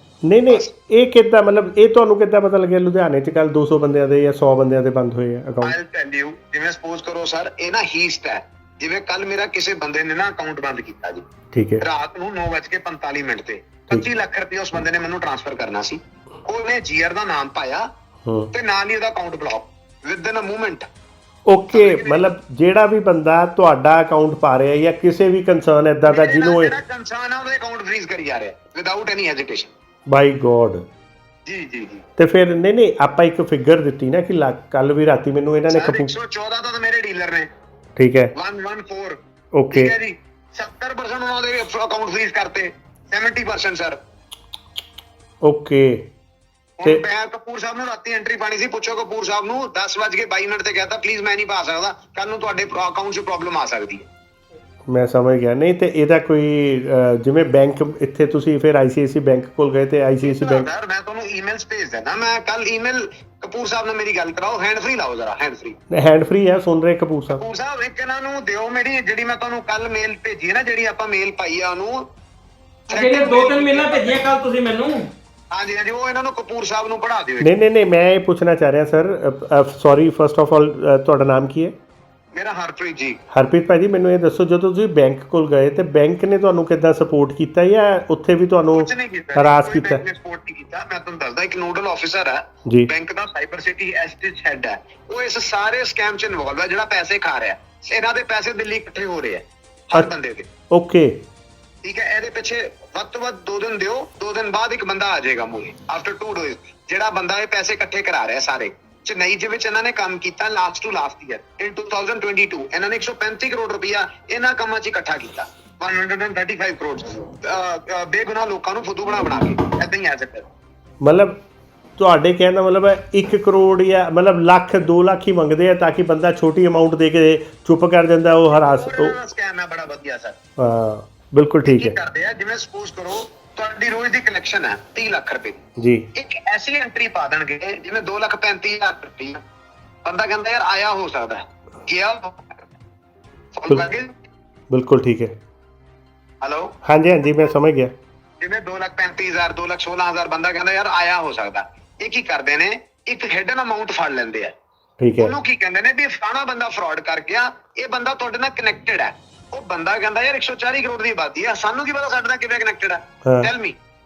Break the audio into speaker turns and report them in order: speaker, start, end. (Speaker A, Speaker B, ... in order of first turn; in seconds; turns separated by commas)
Speaker A: 0.2-5.8, Speaker B: 5.6-11.2, Speaker A: 11.5-11.8, Speaker B: 11.8-17.9, Speaker A: 18.3-18.5, Speaker B: 18.5-20.9, Speaker A: 21.5-26.8, Speaker B: 21.7-22.3, Speaker B: 26.1-29.7, Speaker A: 30.1-30.9, Speaker B: 31.5-32.0, Speaker A: 32.2-36.1, Speaker B: 35.7-37.5, Speaker A: 38.0-38.3, Speaker B: 38.3-39.2, Speaker A: 39.5-39.9, Speaker B: 39.7-44.0, Speaker A: 45.4-46.0, Speaker B: 46.8-54.1, Speaker A: 54.9-60.7, Speaker B: 60.2-65.8, Speaker A: 65.9-67.4, Speaker B: 67.3-72.0, Speaker B: 72.9-74.3, Speaker C: 72.9-75.1, Speaker B: 75.5-77.5, Speaker A: 77.4-81.8, Speaker B: 82.3-83.2, Speaker A: 83.3-90.0, Speaker B: 88.7-100.5, Speaker A: 100.7-101.1, Speaker B: 101.8-120.5, Speaker A: 121.0-121.4, Speaker A: 122.0-129.2, Speaker B: 128.6-130.4, Speaker A: 130.6-131.9, Speaker B: 131.7-135.6, Speaker A: 135.8-136.1, Speaker B: 136.1-139.4, Speaker B: 140.0-142.7, Speaker B: 143.6-144.1, Speaker A: 144.7-145.3, Speaker B: 146.4-146.7, Speaker A: 146.8-147.9, Speaker B: 148.4-154.5, Speaker A: 155.0-155.3, Speaker B: 155.2-163.8, Speaker A: 163.2-163.5